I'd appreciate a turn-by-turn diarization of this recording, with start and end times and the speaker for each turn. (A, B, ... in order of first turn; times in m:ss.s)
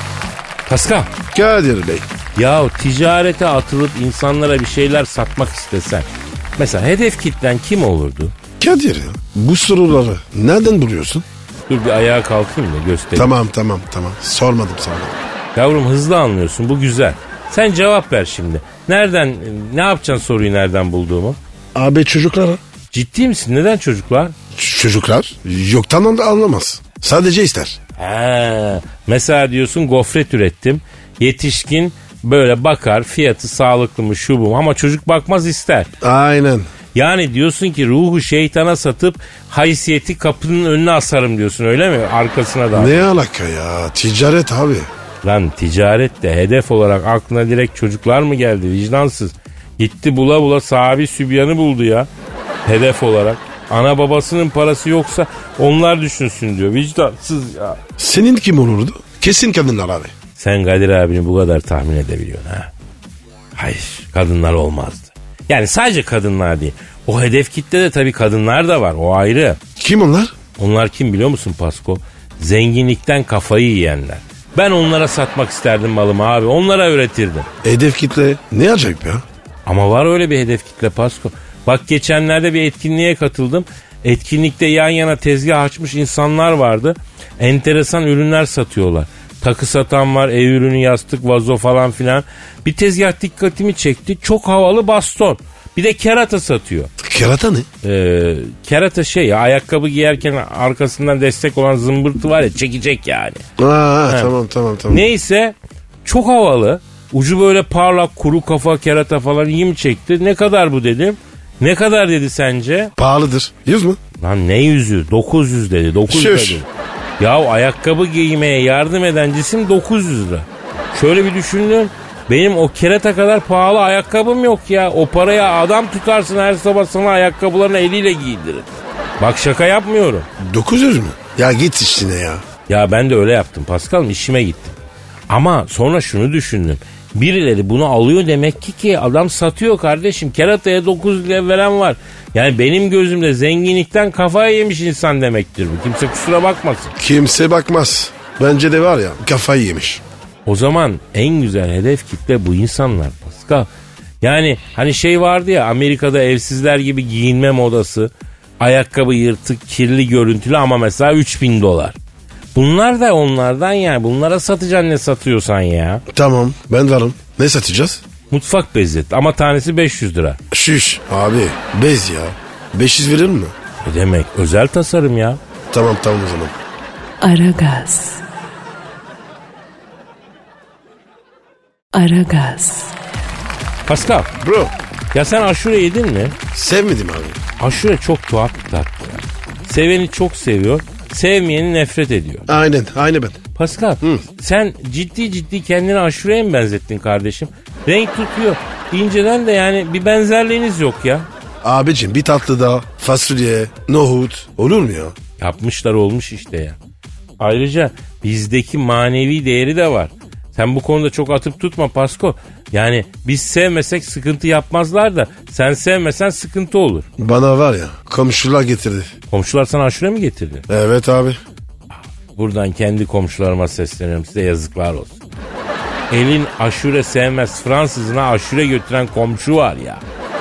0:00.7-0:01.1 A
0:01.3-0:02.1 B
0:02.4-0:08.3 A
0:08.6-0:11.2 B
0:11.7-0:13.3 A
0:13.1-0:15.2 B
0:15.5-0:21.4 A
0:21.7-0:22.6 B
0:22.9-0:24.3 A
0:24.5-0:27.8 B
0:28.0-0:35.9 A
0:36.0-0:36.7 B
0:36.9-0:43.1 A
0:42.7-0:44.9 B
0:45.2-0:52.1 A
0:52.6-0:57.8 A
0:58.0-1:00.1 B
1:00.4-1:02.7 A
1:03.5-1:09.6 A
1:09.8-1:10.3 B
1:10.6-1:17.5 A
1:17.6-1:19.2 B
1:19.6-1:36.9 A
1:37.0-1:37.7 B
1:37.8-1:43.4 A
1:43.6-1:45.1 B
1:44.9-1:52.9 A
1:53.0-1:54.0 B
1:54.2-1:56.7 A
1:56.1-1:56.6 B
1:57.2-2:10.3 A
2:10.4-2:12.4 B
2:12.7-2:14.8 A
2:15.3-2:26.9 A
2:27.0-2:30.0 B
2:30.4-2:33.7 A
2:34.2-2:42.0 A
2:42.5-2:46.0 A
2:46.1-2:48.0 B
2:48.3-2:50.4 A
2:50.5-2:53.5 B
2:53.8-2:55.4 A
2:55.7-2:56.5 B
2:57.2-2:58.2 C
3:01.9-3:02.9 C
3:03.8-3:04.3 A
3:04.4-3:04.7 B
3:05.1-3:06.4 A
3:06.5-3:07.4 B
3:07.6-3:12.5 A
3:12.5-3:13.4 B
3:13.5-3:21.3 A
3:21.6-3:25.2 B
3:25.4-3:26.8 A
3:27.4-3:37.0 A
3:37.2-3:39.1 B
3:39.3-3:40.6 A
3:40.7-3:41.4 B
3:42.3-3:45.2 A
3:46.1-3:50.0 A